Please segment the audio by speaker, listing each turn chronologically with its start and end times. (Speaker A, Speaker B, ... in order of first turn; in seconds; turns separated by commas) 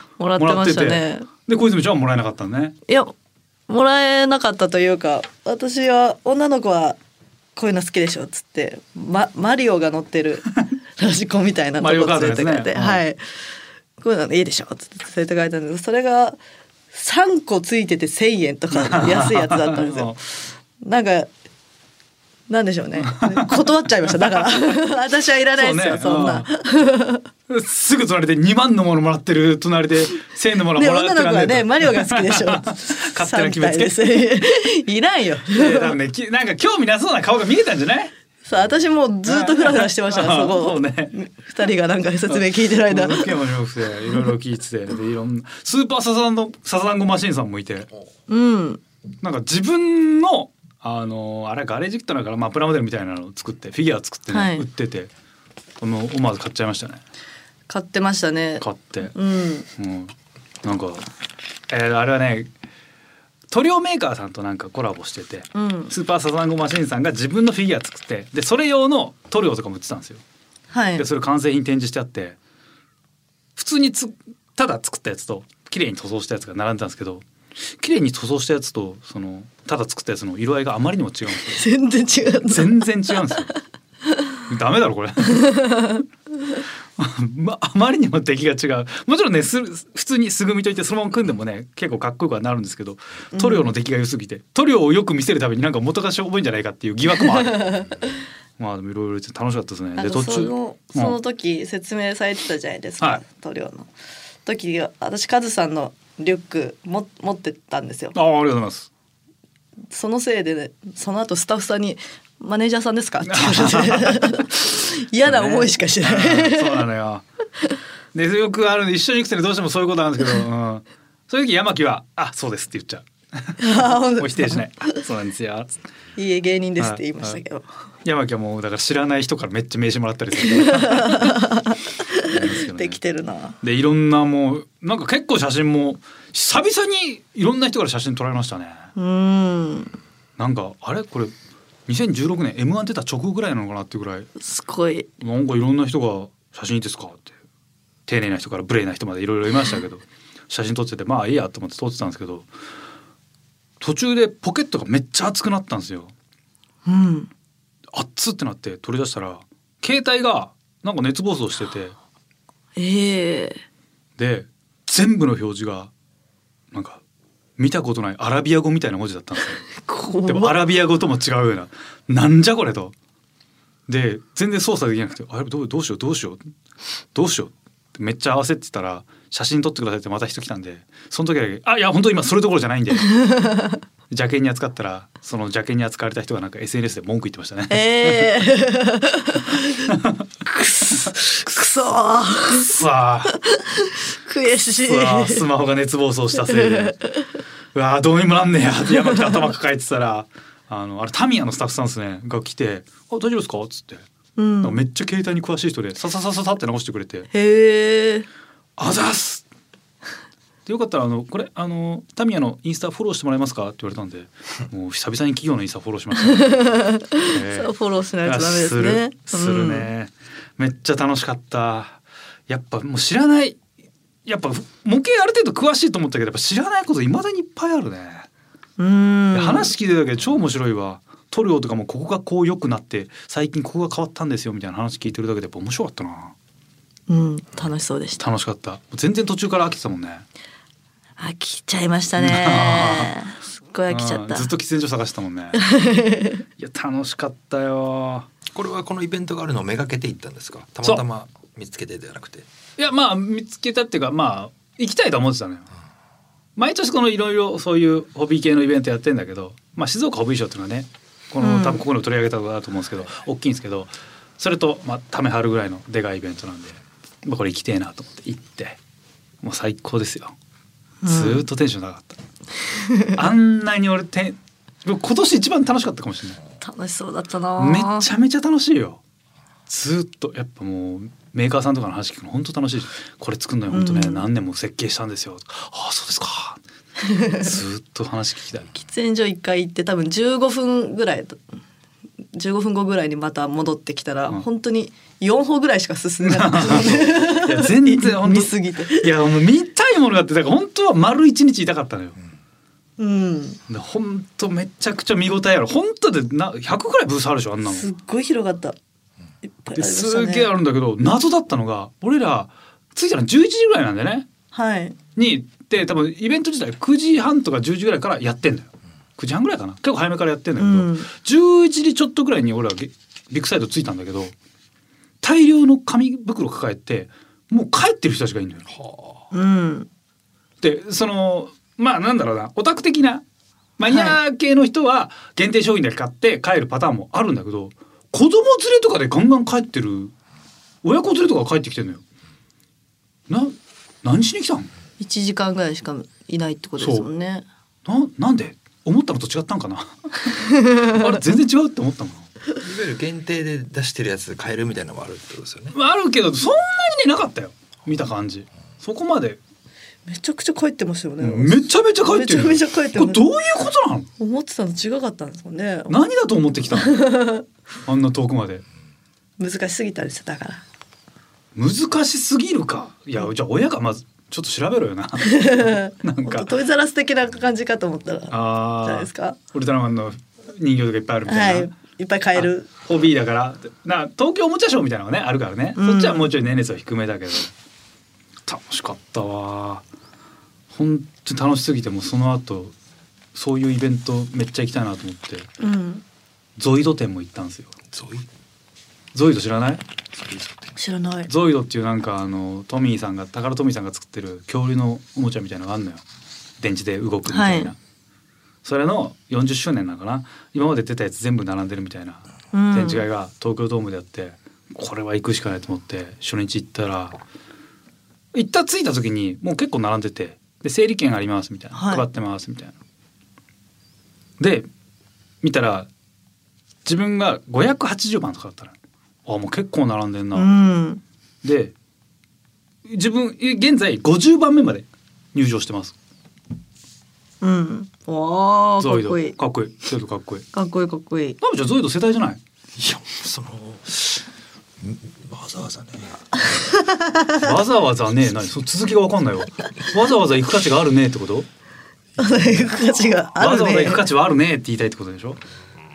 Speaker A: 0.2-1.3, Speaker B: 0.4-2.8, Speaker A: 2.9-3.1, Speaker A: 3.7-7.0, Speaker A: 7.6-13.2, Speaker B: 11.8-13.0, Speaker A: 14.0-16.4, Speaker A: 16.9-20.2, Speaker B: 18.7-20.2, Speaker A: 20.8-21.3, Speaker A: 22.5-27.2, Speaker B: 23.0-23.7, Speaker B: 25.6-26.5, Speaker B: 27.5-34.2, Speaker A: 30.8-35.9, Speaker B: 35.5-38.1, Speaker A: 38.5-43.3, Speaker B: 39.2-41.1, Speaker B: 42.3-47.9, Speaker A: 48.3-48.8, Speaker B: 49.2-55.1, Speaker A: 54.3-54.6, Speaker B: 55.8-57.0, Speaker A: 57.7-59.7, Speaker B: 58.6-59.1, Speaker B: 59.8-60.1, Speaker B: 60.6-61.1, Speaker B: 61.7-62.5, Speaker B: 63.5-70.2, Speaker A: 65.5-65.9, Speaker A: 70.7-71.0, Speaker B: 71.0-72.4, Speaker B: 73.6-77.2, Speaker B: 77.8-81.7, Speaker A: 81.4-82.9, Speaker B: 82.5-83.5, Speaker B: 84.5-86.0, Speaker A: 85.3-86.0, Speaker B: 87.0-101.2, Speaker A: 93.3-93.7, Speaker A: 100.0-103.9, Speaker A: 104.4-108.2, Speaker B: 108.1-108.9, Speaker A: 109.9-116.8, Speaker B: 113.3-114.5, Speaker B: 115.2-117.2, Speaker B: 118.1-125.8, Speaker A: 123.6-125.0, Speaker A: 126.2-127.7, Speaker B: 126.8-127.4, Speaker B: 128.1-131.5, Speaker A: 130.5-133.6, Speaker B: 132.2-133.0, Speaker B: 133.6-138.9, Speaker A: 139.0-140.0, Speaker B: 140.4-141.3, Speaker B: 141.9-144.3, Speaker A: 144.4-145.1, Speaker B: 145.2-147.3, Speaker B: 148.1-152.5, Speaker B: 153.8-156.1, Speaker A: 156.9-157.3, Speaker B: 157.9-161.9, Speaker A: 162.8-163.6, Speaker B: 164.2-165.9, Speaker B: 166.7-167.0, Speaker B: 167.6-169.7, Speaker A: 169.7-170.6, Speaker B: 170.2-172.9, Speaker B: 173.9-176.4, Speaker B: 177.1-183.2, Speaker A: 183.0-183.8, Speaker B: 184.1-188.4, Speaker A: 187.7-189.9, Speaker B: 189.9-190.2, Speaker A: 190.4-192.8, Speaker B: 192.5-193.3, Speaker A: 193.3-195.5, Speaker B: 194.8-197.0, Speaker A: 196.3-197.4, Speaker B: 197.7-204.1, Speaker A: 198.9-199.3, Speaker A: 204.4-204.8, Speaker B: 204.6-207.3, Speaker A: 207.3-208.3, Speaker B: 208.8-209.4, Speaker B: 210.7-223.6, Speaker A: 216.2-219.9, Speaker B: 224.2-228.3, Speaker A: 228.8-229.7, Speaker B: 229.3-236.3, Speaker A: 237.1-238.2, Speaker B: 238.2-240.2, Speaker A: 241.2-244.5, Speaker B: 242.2-243.2, Speaker B: 243.9-245.7, Speaker A: 245.5-246.4, Speaker B: 246.6-248.3, Speaker C: 248.5-252.5, Speaker B: 252.8-255.7, Speaker B: 256.6-268.8, Speaker A: 261.4-261.8, Speaker B: 269.4-270.4, Speaker A: 271.0-271.4, Speaker B: 271.1-272.2, Speaker A: 272.7-273.1, Speaker B: 273.1-276.4, Speaker A: 276.6-278.1, Speaker B: 277.6-279.0, Speaker B: 279.7-286.6, Speaker A: 283.7-284.2, Speaker A: 287.0-287.5, Speaker B: 287.2-288.8, Speaker A: 288.9-291.4, Speaker A: 292.3-299.1, Speaker B: 296.2-302.2, Speaker A: 303.0-303.6, Speaker B: 303.7-307.9, Speaker A: 307.6-308.8, Speaker A: 309.6-310.5, Speaker B: 309.8-314.3, Speaker A: 314.5-315.0, Speaker B: 315.1-324.3, Speaker A: 320.6-321.1, Speaker B: 325.2-328.7, Speaker C: 328.7-329.2, Speaker A: 329.3-329.9, Speaker B: 330.6-333.2, Speaker B: 333.8-340.1, Speaker A: 333.9-334.2, Speaker B: 340.8-342.0, Speaker B: 343.3-344.7, Speaker A: 345.0-347.5, Speaker B: 346.8-347.1, Speaker B: 347.9-352.3, Speaker A: 350.5-351.0, Speaker C: 352.6-355.8, Speaker B: 355.7-359.4, Speaker A: 360.1-363.2, Speaker B: 361.2-364.1, Speaker A: 364.2-365.9, Speaker B: 365.9-367.1, Speaker A: 366.7-367.5, Speaker B: 367.9-368.6, Speaker A: 369.4-370.6, Speaker B: 371.5-376.6, Speaker A: 375.2-379.4, Speaker B: 378.3-381.8, Speaker A: 381.3-382.7, Speaker B: 382.4-387.5, Speaker A: 385.8-386.3, Speaker B: 388.5-389.8, Speaker B: 390.7-392.7, Speaker B: 393.3-395.5, Speaker A: 395.6-396.0, Speaker B: 396.6-397.7, Speaker C: 397.9-398.3, Speaker B: 399.1-399.8, Speaker C: 400.2-400.7, Speaker A: 400.8-401.3, Speaker B: 401.3-406.0, Speaker B: 406.6-407.8, Speaker A: 407.3-407.7, Speaker B: 408.6-417.2, Speaker A: 412.5-413.0, Speaker B: 418.3-422.8, Speaker A: 421.8-422.0, Speaker B: 424.4-424.7, Speaker B: 425.4-425.9, Speaker B: 426.9-430.5, Speaker A: 430.3-431.0, Speaker B: 431.4-431.7, Speaker B: 432.9-435.9, Speaker A: 437.4-439.4, Speaker B: 438.8-440.5, Speaker A: 440.5-441.4, Speaker B: 441.4-442.4, Speaker C: 442.8-444.2, Speaker C: 444.8-446.2, Speaker A: 446.4-447.5, Speaker B: 447.4-451.5, Speaker A: 452.2-454.0, Speaker B: 453.4-455.4